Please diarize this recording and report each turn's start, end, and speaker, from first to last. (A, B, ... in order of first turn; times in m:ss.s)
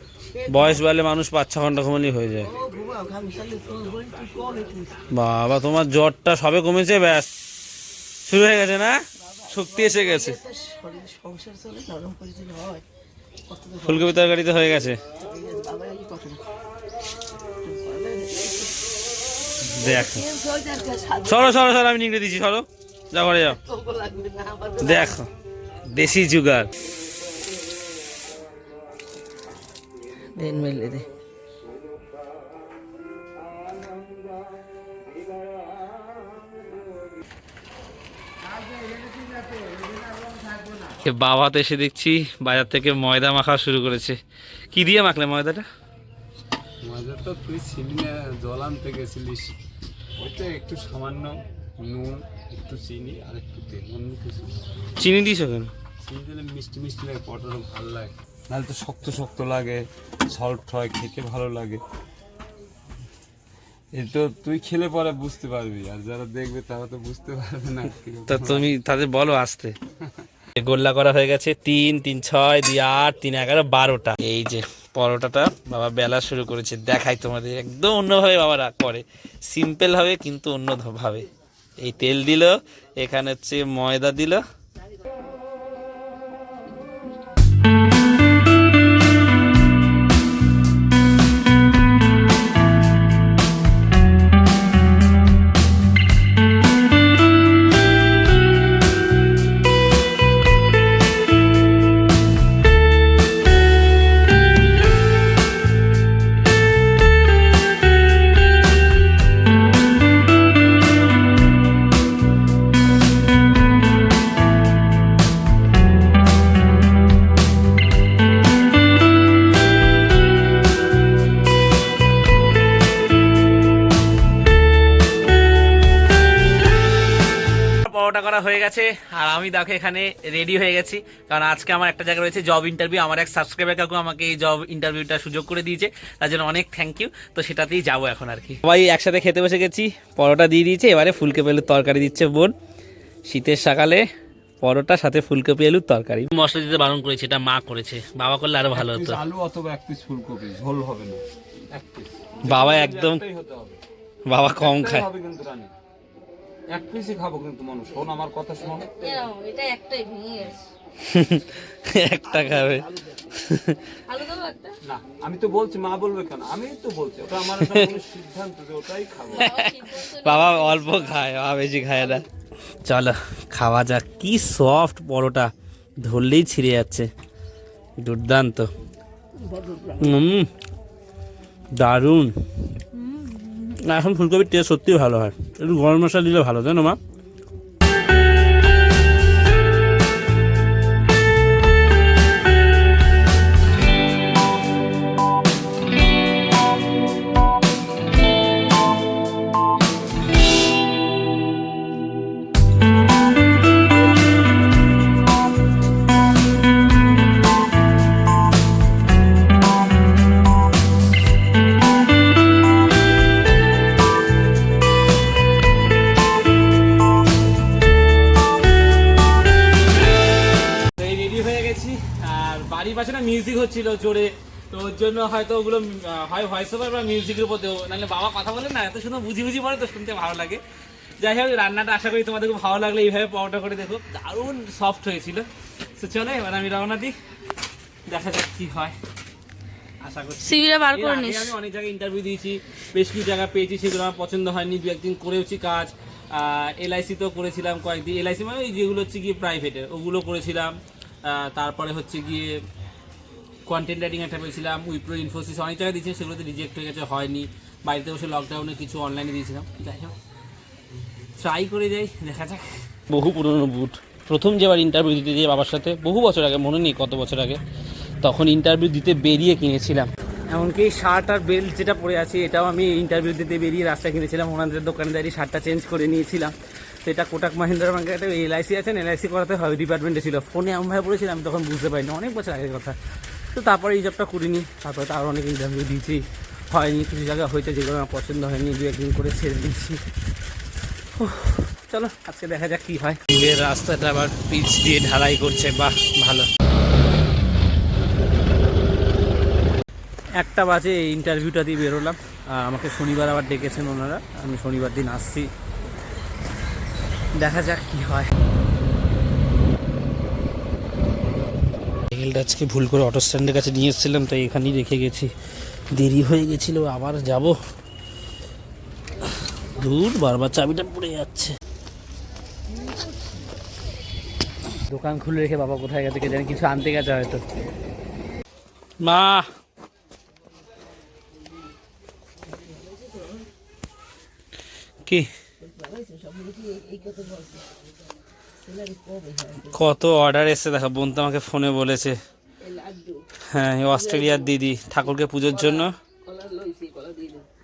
0:00.3-0:00.8 A
0:00.5-0:02.5 B
0:02.4-0:05.1 A
0:05.1-0:07.3 B
0:08.2-0:10.4 B
0:09.2-0:12.8 A
0:13.5-0:14.1 A
0:13.8-0:15.0 B
0:15.2-0:16.4 A
0:17.6-0:18.8 A
0:19.6-0:20.2 B
0:19.8-0:21.7 A
0:21.2-0:23.6 B
0:23.5-0:25.2 A
0:24.8-0:25.3 B
0:25.9-0:26.7 B
0:30.3-0:31.1 A
0:41.0-0:44.2 B
0:44.7-0:45.7 B
0:46.8-0:49.6 C
0:50.2-0:54.6 C
0:55.0-0:55.7 B
0:56.0-1:01.8 C
1:03.9-1:08.7 C
1:08.3-1:09.8 B
1:10.6-1:21.2 B
1:21.8-1:24.4 B
2:07.8-2:22.5 B
2:23.3-2:24.1 B
2:24.6-2:29.2 B
2:28.7-2:33.8 C
2:32.4-2:33.2 B
2:34.3-2:35.1 B
2:34.6-2:35.7 C
2:36.7-2:38.9 C
2:38.6-2:39.3 A
2:38.9-2:40.7 D
2:41.0-2:42.9 B
2:42.2-2:43.4 A
2:43.4-2:43.8 B
2:44.1-2:44.8 D
2:44.8-2:49.5 C
2:47.5-2:47.9 B
2:49.3-2:51.2 D
2:49.3-2:52.2 B
2:52.8-2:55.5 B
2:56.0-2:57.1 B
2:58.0-2:58.7 B
2:59.4-3:00.2 A
3:00.0-3:00.5 B
3:01.7-3:02.3 B
3:02.9-3:03.8 D
3:03.8-3:07.0 B
3:41.0-3:50.6 B
3:51.2-3:57.1 B
3:58.1-3:59.0 B
4:00.0-4:12.6 B
4:00.4-4:01.5 D
4:13.7-4:20.2 B
4:21.4-4:27.6 B
4:28.2-4:43.0 B
4:43.5-4:50.0 B
4:51.2-4:56.5 B
5:00.4-5:05.5 B
5:07.3-5:08.3 B
5:12.1-5:15.3 B
5:15.9-5:17.6 B
5:19.6-5:21.6 B
5:24.9-5:27.4 B
5:29.0-5:29.5 B
5:32.5-5:33.4 A
5:35.6-5:37.7 A
5:38.6-5:39.8 A
5:39.7-5:42.2 B
5:42.6-5:43.2 A
5:43.5-5:45.9 B
5:43.8-5:44.6 A
5:45.4-5:47.4 A